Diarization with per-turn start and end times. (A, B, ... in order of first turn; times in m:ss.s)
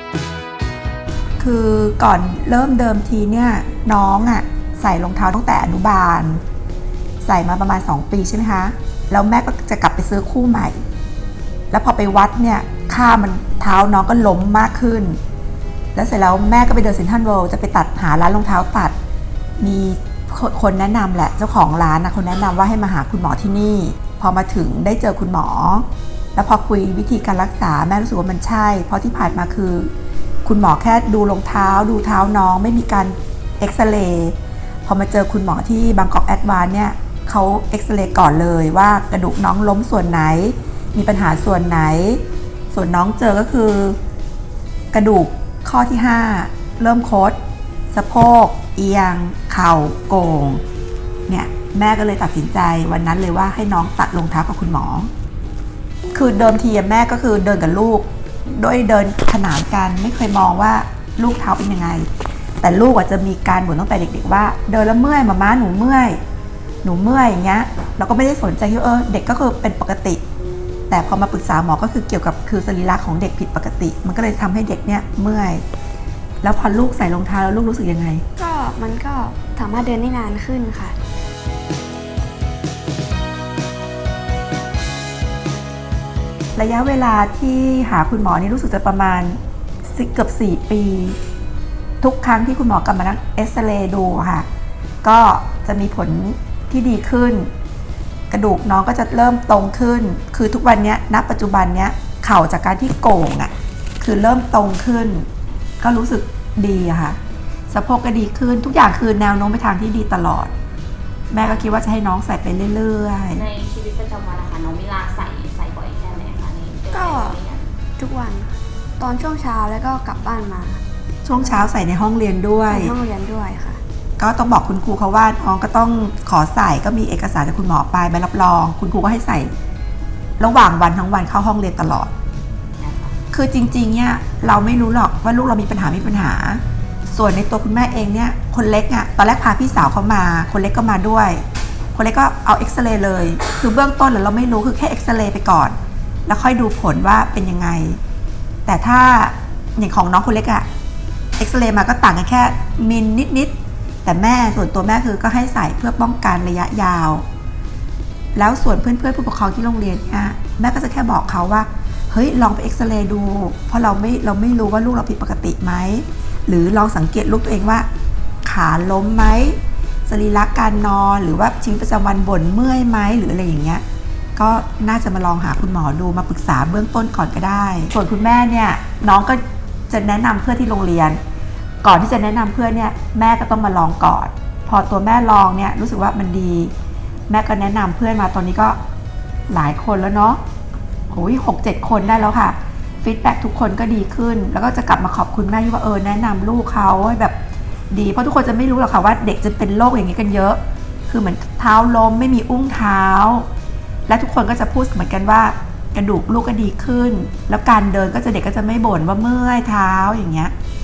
0:01.4-0:06.4 A
0:07.2-0:10.8 A
0:11.7-0:15.2 A
0:16.0-0:19.0 A
0:19.6-0:29.9 A
0:30.4-0:44.0 A
0:44.9-0:47.4 A
0:47.9-0:50.6 A
0:51.3-0:55.1 A
0:56.1-1:02.1 A
1:02.6-1:06.2 A
1:06.8-1:10.2 A
1:10.9-1:15.6 A
1:16.4-1:18.2 A
1:18.4-1:21.0 B
1:26.6-1:31.2 A
1:32.0-1:34.5 A
1:35.0-1:37.5 A
1:38.3-1:45.3 A
1:45.8-1:47.2 A
1:47.7-1:50.5 A
1:51.3-1:53.5 A
1:51.3-1:51.8 C
1:53.3-1:57.7 C
1:56.9-1:57.4 B
1:58.0-2:00.8 B
2:01.2-2:02.9 A
2:01.4-2:01.7 B
2:02.7-2:03.8 B
2:04.2-2:09.5 A
2:10.4-2:12.1 A
2:12.8-2:13.2 C
2:13.3-2:25.8 A
2:26.3-2:28.0 A
2:28.7-2:30.7 A
2:31.4-2:37.2 A
2:38.3-2:47.9 A
2:48.4-2:53.8 A
2:54.4-3:01.2 A
3:01.8-3:06.7 A
3:07.3-3:08.8 A
3:09.5-3:10.4 A
3:11.1-3:17.3 A
3:17.9-3:23.5 A
3:24.1-3:30.5 A